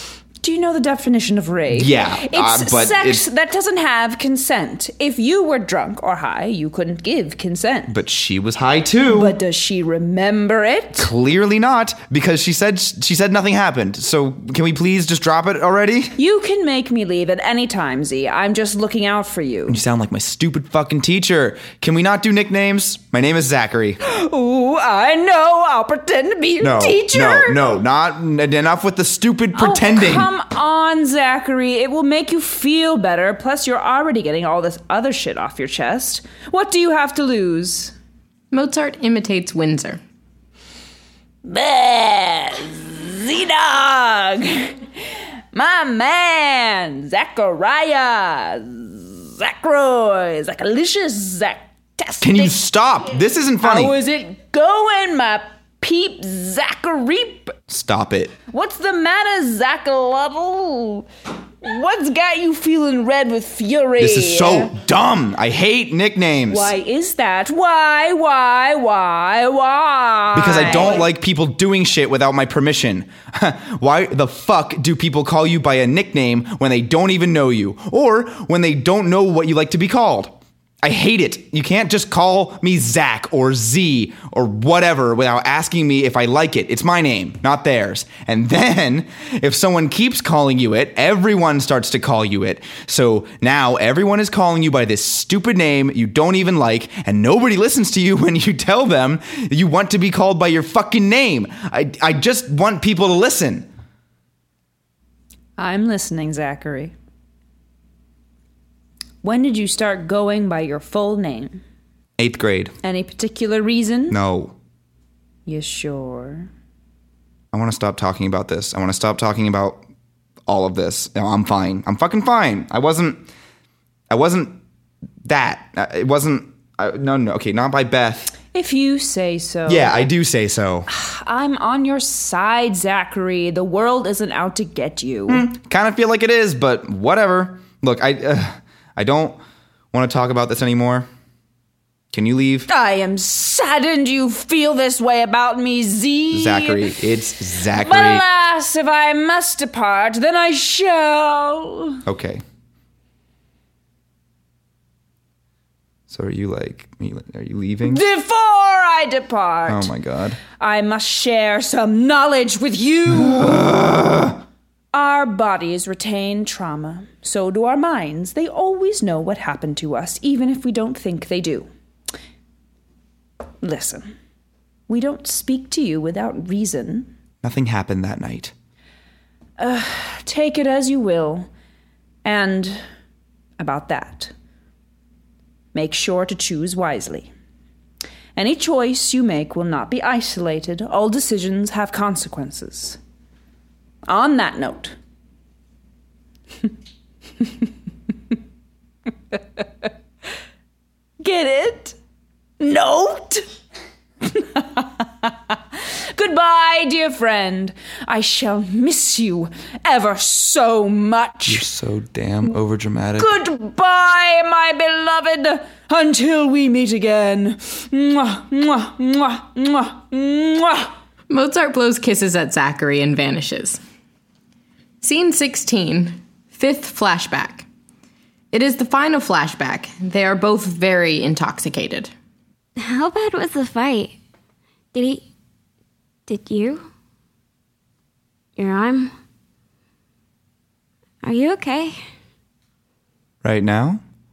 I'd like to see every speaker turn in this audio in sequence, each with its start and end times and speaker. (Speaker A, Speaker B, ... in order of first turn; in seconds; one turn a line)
Speaker A: 0.4-8.0
Speaker B: 1.7-3.2
Speaker B: 7.9-9.3
Speaker A: 9.1-11.1
Speaker B: 11.0-16.1
Speaker A: 16.2-19.8
Speaker B: 19.7-24.0
Speaker A: 24.0-27.6
Speaker B: 26.6-30.3
Speaker A: 29.6-37.9
Speaker C: 38.5-40.0
Speaker A: 41.5-44.9
Speaker A: 45.5-52.6
Speaker B: 52.2-54.0
Speaker A: 53.6-57.6
Speaker B: 57.7-58.4
Speaker A: 58.5-61.1
Speaker A: 61.6-64.7
Speaker B: 64.0-66.7
Speaker A: 66.5-71.1
Speaker B: 70.3-103.7
Speaker A: 105.6-106.9
Speaker A: 109.2-111.6
Speaker B: 112.2-112.7
Speaker A: 112.8-114.2
Speaker B: 114.1-114.6
Speaker A: 115.5-116.5
Speaker B: 117.5-119.8
Speaker B: 120.5-123.3
Speaker B: 124.1-124.6
Speaker B: 125.2-128.3
Speaker A: 128.5-129.9
Speaker B: 129.7-130.9
Speaker A: 130.9-135.4
Speaker B: 135.3-139.4
Speaker B: 139.9-141.1
Speaker B: 142.1-142.7
Speaker A: 142.7-146.9
Speaker B: 146.3-148.2
Speaker A: 147.8-152.0
Speaker B: 152.1-152.4
Speaker B: 156.1-158.0
Speaker A: 157.8-159.9
Speaker B: 159.7-160.4
Speaker A: 160.6-163.7
Speaker B: 163.1-164.4
Speaker A: 164.9-171.7
Speaker A: 173.6-174.1
Speaker A: 174.9-177.1
Speaker B: 177.4-178.5
Speaker A: 179.6-181.5
Speaker A: 182.2-182.8
Speaker A: 183.6-184.3
Speaker A: 185.7-187.3
Speaker A: 188.4-193.0
Speaker A: 194.1-194.9
Speaker A: 199.4-199.6
Speaker A: 201.2-202.0
Speaker A: 202.6-203.5
Speaker A: 204.2-211.7
Speaker B: 211.5-213.3
Speaker A: 213.2-220.9
Speaker C: 221.3-223.8
Speaker C: 225.0-227.7
Speaker C: 228.5-232.1
Speaker D: 232.8-234.2
Speaker D: 234.9-235.2
Speaker D: 236.3-236.8
Speaker D: 238.6-239.1
Speaker D: 241.2-242.0
Speaker B: 243.4-244.0